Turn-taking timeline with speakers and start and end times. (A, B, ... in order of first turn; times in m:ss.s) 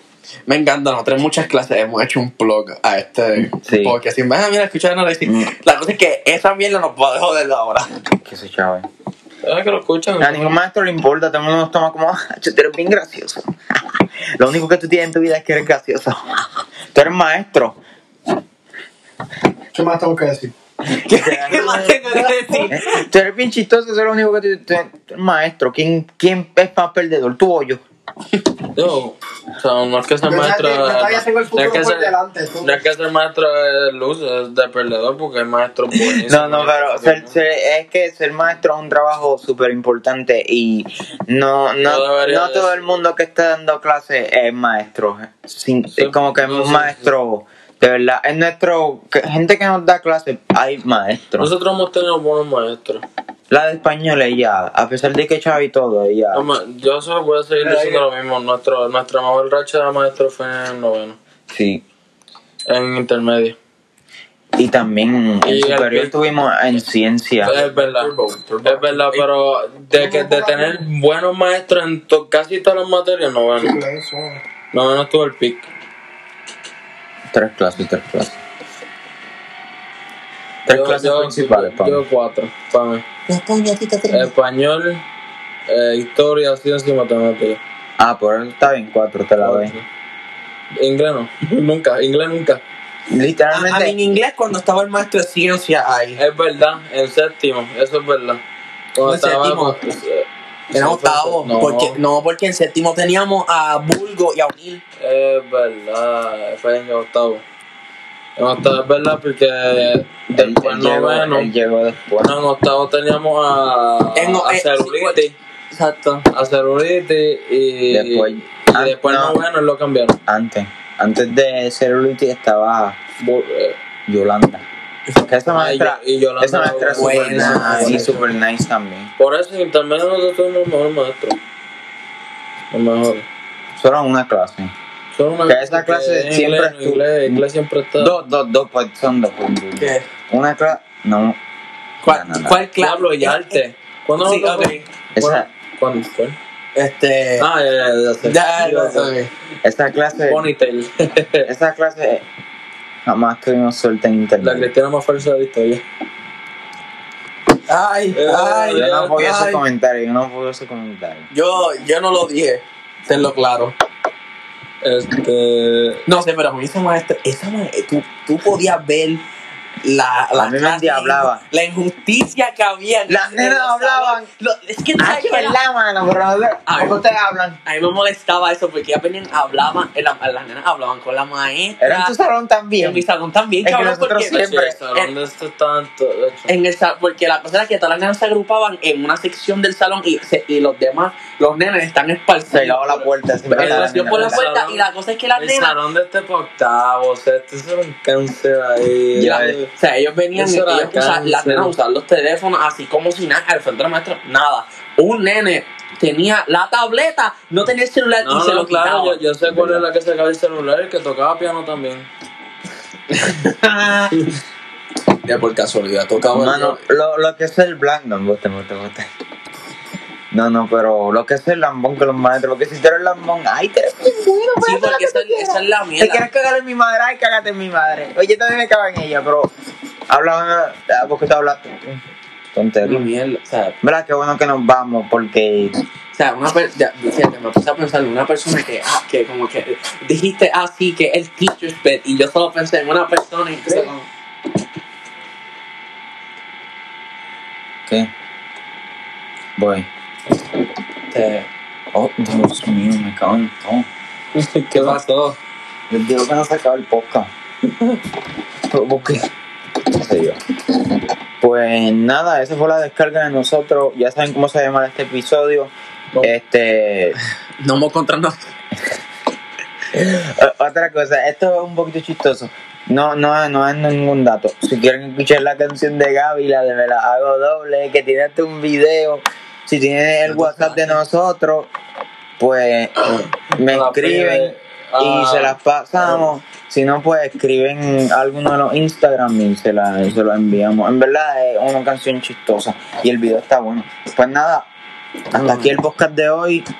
0:00.5-0:07.9 A
0:03.6-0:04.0 B
0:05.2-0:05.5 B
0:08.2-0:08.8 B
0:09.4-0:10.6 C
0:10.2-0:13.5 B
0:14.4-0:17.8 B
0:19.7-0:20.5 D
0:20.9-0:27.8 B
0:21.0-0:23.0 A
0:28.7-0:37.3 C
0:30.2-0:32.8 D
0:35.9-0:51.5 B
0:41.8-0:42.8 C
0:46.0-0:47.1 C
0:51.4-0:53.0 C
0:53.5-0:56.5 B
0:56.3-1:01.2 C
0:57.6-0:58.0 A
1:01.5-1:01.8 B
1:02.7-1:03.6 C
1:04.6-1:07.6 B
1:05.4-1:06.1 C
1:07.4-1:08.1 C
1:07.4-1:09.2 A
1:08.6-1:13.8 C
1:09.9-1:10.8 D
1:13.6-1:14.4 D
1:14.7-1:15.7 C
1:17.3-1:18.4 B
1:20.6-1:22.0 B
1:20.7-1:23.0 C
1:23.3-1:24.3 A
1:24.1-1:25.0 C
1:25.7-1:27.6 C
1:28.0-1:29.7 B
1:29.4-1:29.8 C
1:30.8-1:32.6 C
1:33.1-1:34.0 B
1:33.5-1:36.2 A
1:36.2-1:38.4 C
1:38.9-1:42.0 C
1:39.0-1:39.8 A
1:40.7-1:44.8 A
1:45.0-1:47.4 C
1:48.4-1:51.5 C
1:50.3-1:52.3 B
1:52.2-1:55.4 C
1:54.2-1:55.2 A
1:55.7-1:56.3 A
1:56.3-2:00.2 C
1:57.9-1:59.4 B
2:00.3-2:03.0 B
2:03.2-2:03.8 C
2:04.1-2:04.6 B
2:05.2-2:09.1 B
2:05.5-2:08.2 C
2:07.0-2:08.1 A
2:09.2-2:11.4 C
2:12.7-2:13.2 C
2:13.8-2:14.7 B
2:15.1-2:18.1 C
2:15.5-2:17.4 B
2:18.0-2:21.4 B
2:19.8-2:20.0 A
2:22.0-2:23.6 A
2:22.0-2:22.7 B
2:22.8-2:26.4 C
2:24.2-2:24.9 A
2:25.2-2:25.4 B
2:26.7-2:27.5 A
2:27.4-2:29.1 C
2:28.2-2:29.3 A
2:29.6-2:30.5 B
2:30.3-2:31.5 C
2:31.4-2:32.2 B
2:33.0-2:34.7 B
2:34.4-2:35.8 C
2:37.7-2:39.6 A
2:38.1-2:39.2 C
2:38.7-2:41.3 B
2:41.3-2:43.7 A
2:44.8-2:46.0 C
2:46.1-2:49.2 A
2:49.8-2:55.6 A
2:50.4-2:51.4 B
2:53.1-2:54.3 B
2:55.0-2:57.6 B
2:56.7-2:57.0 A
2:57.6-3:02.1 A
3:01.8-3:03.0 B
3:02.8-3:05.1 A
3:03.6-3:04.8 B
3:04.3-3:06.5 C
3:06.5-3:15.7 A
3:12.5-3:14.4 B
3:13.6-3:19.5 C
3:19.2-3:19.6 B
3:19.2-3:29.2 A
3:20.3-3:21.7 C
3:28.2-3:32.1 C
3:29.4-3:29.8 B
3:33.1-3:34.2 A
3:35.2-3:36.8 A
3:36.3-3:39.0 B
3:40.3-3:49.5 B
3:44.6-3:46.2 A
3:50.1-3:52.0 B
3:52.5-3:53.1 B
3:52.8-3:53.8 A
3:53.8-3:55.7 B
3:56.1-4:04.0 A
4:09.6-4:09.9 B
4:11.1-4:11.5 A
4:11.9-4:13.9 B
4:14.3-4:15.4 C
4:15.9-4:17.3 B
4:18.7-4:19.3 B
4:19.9-4:20.4 B
4:21.4-4:27.2 B
4:27.6-4:28.5 A
4:29.9-4:41.7 B
4:40.3-4:41.0 A
4:42.4-4:54.7 B
4:43.6-4:46.2 C
4:55.3-4:56.7 B
4:55.4-4:55.7 A